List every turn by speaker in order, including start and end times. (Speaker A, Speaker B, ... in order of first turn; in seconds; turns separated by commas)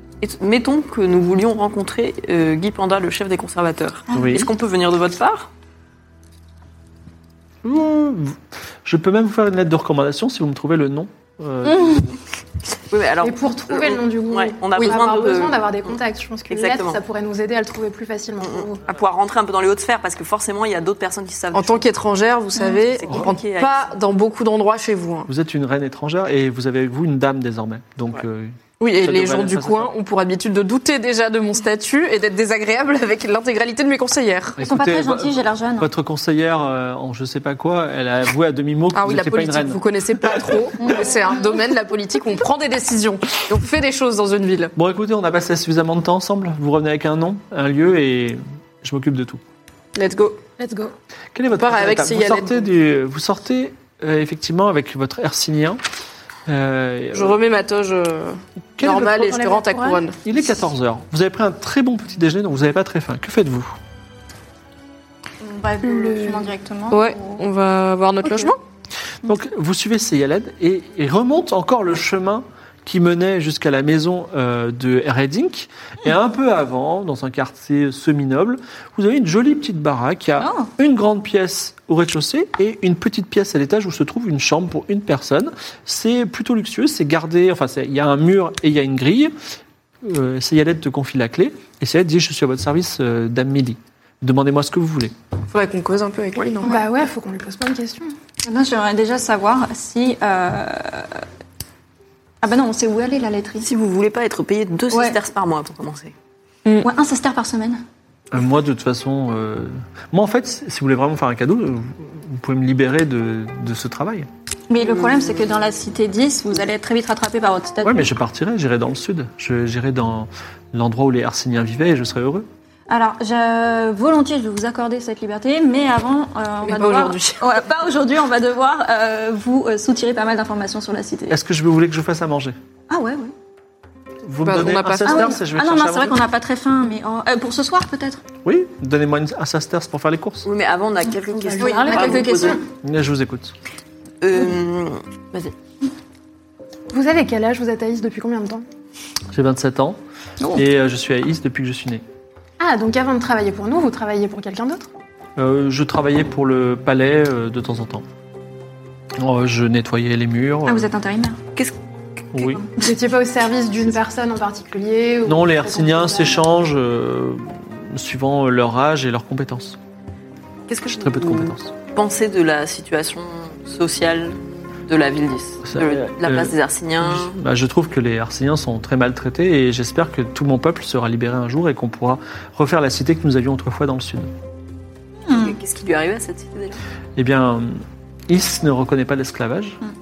Speaker A: 0.2-5.5, Speaker B: 4.1-4.5, Speaker B: 7.6-12.1, Speaker C: 11.7-12.1, Speaker A: 12.9-15.9, Speaker D: 13.2-18.8, Speaker A: 16.5-17.0, Speaker A: 18.4-21.9, Speaker E: 21.5-25.3, Speaker A: 22.9-23.9, Speaker B: 25.3-29.9, Speaker E: 28.8-34.6, Speaker B: 34.6-39.8, Speaker C: 34.6-35.9, Speaker E: 39.0-44.7, Speaker B: 44.8-49.4, Speaker E: 50.0-50.4, Speaker D: 50.6-50.9, Speaker B: 51.3-55.8, Speaker E: 51.5-52.6, Speaker B: 56.5-57.4, Speaker E: 57.1-60.2, Speaker B: 58.8-59.4, Speaker D: 59.1-60.0, Speaker B: 60.2-63.8, Speaker C: 65.4-67.4, Speaker D: 65.8-66.5, Speaker E: 66.9-68.6, Speaker B: 69.2-89.3, Speaker C: 80.4-80.7, Speaker B: 90.0-95.1, Speaker E: 95.5-96.8, Speaker D: 96.6-98.1, Speaker C: 98.4-101.2, Speaker C: 102.4-103.7, Speaker A: 103.6-106.1, Speaker C: 104.9-105.2, Speaker C: 106.8-107.8, Speaker B: 108.3-114.3, Speaker C: 114.7-118.1, Speaker A: 114.8-115.3, Speaker B: 117.8-122.5, Speaker C: 122.9-131.4, Speaker E: 126.6-127.5, Speaker B: 131.3-132.6, Speaker C: 132.9-133.3, Speaker B: 134.2-136.2, Speaker E: 134.4-135.4, Speaker C: 135.1-138.2, Speaker B: 138.4-140.5, Speaker A: 140.4-142.6, Speaker D: 141.4-142.6, Speaker C: 141.6-142.6, Speaker B: 142.8-143.5, Speaker A: 144.2-145.5, Speaker D: 146.9-148.7, Speaker B: 149.3-150.0, Speaker B: 150.6-152.0, Speaker D: 152.6-154.9, Speaker B: 155.4-158.1, Speaker B: 159.2-160.9, Speaker C: 160.7-161.4, Speaker B: 162.3-162.6, Speaker D: 162.8-166.5, Speaker B: 165.3-169.8, Speaker A: 170.7-177.4, Speaker B: 170.9-171.7, Speaker B: 175.7-184.3, Speaker C: 185.3-185.6, Speaker A: 185.3-186.8, Speaker B: 187.2-189.8